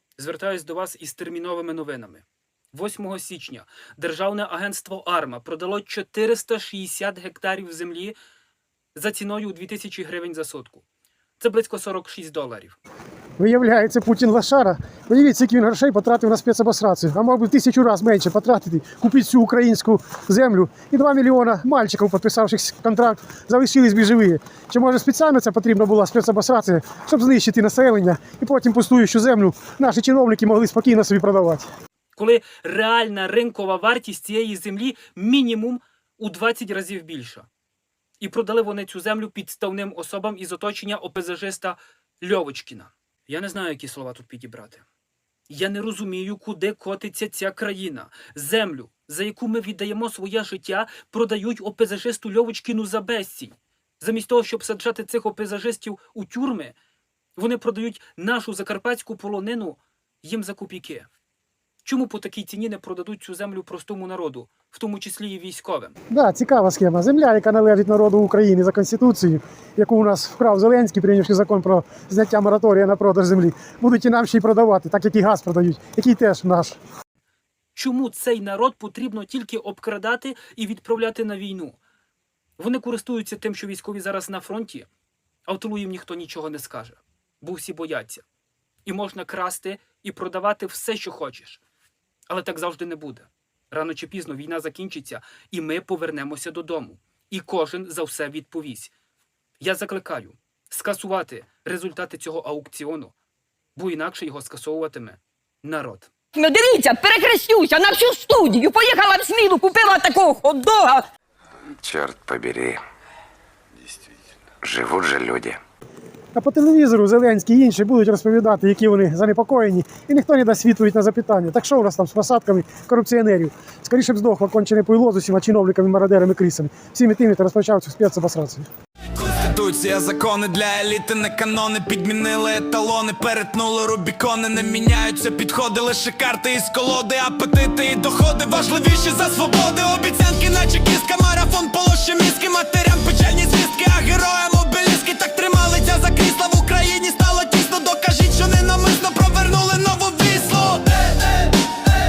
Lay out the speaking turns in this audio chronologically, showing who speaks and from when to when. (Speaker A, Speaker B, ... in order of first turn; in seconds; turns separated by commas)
Speaker A: 0.2-8.2, Speaker A: 8.9-10.8, Speaker A: 11.4-12.8, Speaker B: 13.4-31.7, Speaker A: 32.1-37.5, Speaker A: 38.2-44.8, Speaker A: 45.5-56.7, Speaker A: 57.4-61.1, Speaker A: 61.8-65.9, Speaker B: 66.1-76.8, Speaker A: 77.8-81.8, Speaker A: 82.6-84.9, Speaker A: 85.5-88.2, Speaker A: 88.8-91.6, Speaker A: 92.3-98.9, Speaker A: 99.6-103.1, Speaker A: 103.8-106.1, Speaker C: 106.3-111.0, Speaker D: 111.8-112.8, Speaker D: 114.6-115.6, Speaker B: 116.3-128.7, Speaker E: 129.2-151.2